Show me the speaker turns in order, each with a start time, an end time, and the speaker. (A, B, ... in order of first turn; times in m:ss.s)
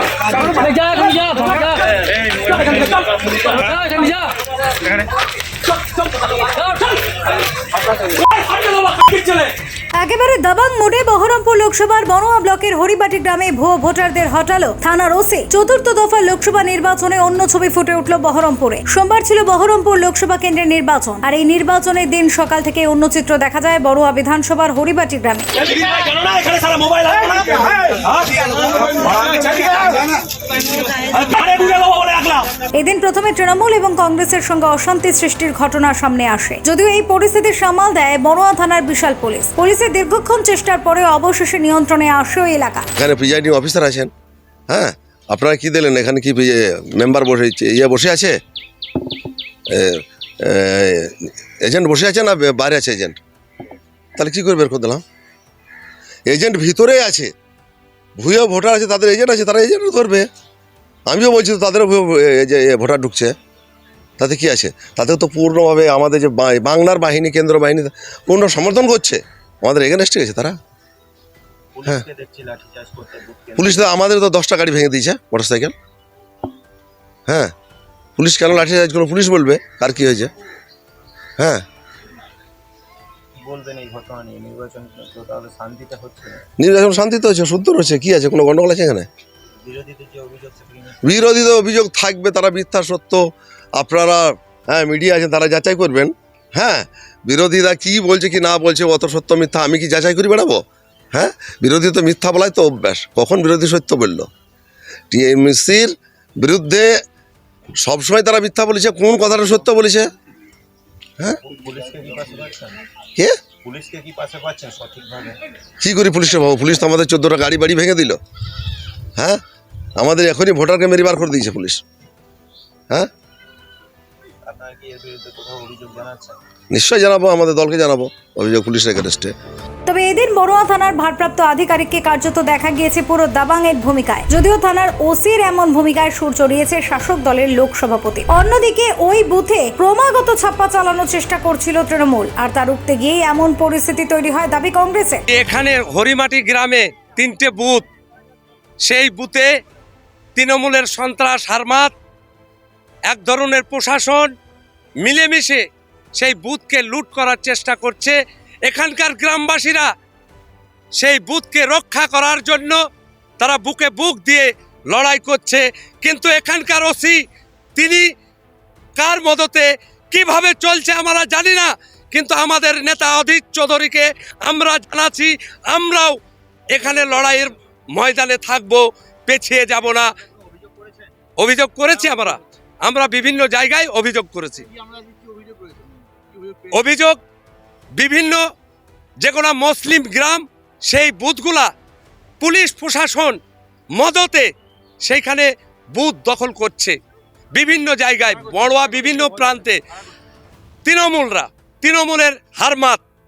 0:00.4-0:01.9 A
0:02.4-0:04.3 A
0:08.2-0:09.5 A
0:10.0-0:25.5 B
0:25.7-0:30.0 A
0:31.0-0:32.5 A
0:32.7-0:42.9 B
0:43.0-0:44.1 C
0:44.7-0:48.4 C
0:49.7-0:53.2 C
0:54.2-0:55.0 C
0:56.2-0:57.3 C
0:58.2-1:00.3 C
1:01.1-1:03.3 C
1:04.2-1:10.6 C
1:11.7-1:13.9 D
1:13.6-1:15.7 C
1:17.3-1:17.5 C
1:18.2-1:20.3 C
1:21.4-1:21.6 C
1:23.4-1:26.4 D
1:26.6-1:29.1 C
1:29.6-1:31.2 D
1:31.0-1:40.6 C
1:41.1-1:44.3 C
1:45.1-1:47.0 C
1:47.8-1:50.1 C
1:51.4-1:52.8 D
1:53.6-1:55.4 D
1:55.8-1:58.2 C
2:00.0-2:01.8 C
2:04.4-2:06.4 D
2:06.7-2:09.3 C
2:09.8-2:25.2 B
2:25.3-2:27.8 E
2:28.8-2:29.5 E
2:30.4-2:31.9 E
2:33.1-2:34.3 E
2:35.0-2:35.6 E
2:36.1-2:39.9 E
2:41.0-2:42.8 E
2:43.4-2:47.2 E
2:47.8-2:48.0 E
2:49.0-2:56.2 E
2:56.7-3:00.1 E
3:00.5-3:01.1 D
3:01.4-3:04.7 E
3:06.7-3:07.2 E
3:08.0-3:08.4 E
3:09.2-3:11.7 E
3:12.4-3:13.4 E
3:14.0-3:14.5 E
3:15.0-3:17.0 E
3:17.5-3:19.8 E
3:20.8-3:23.0 E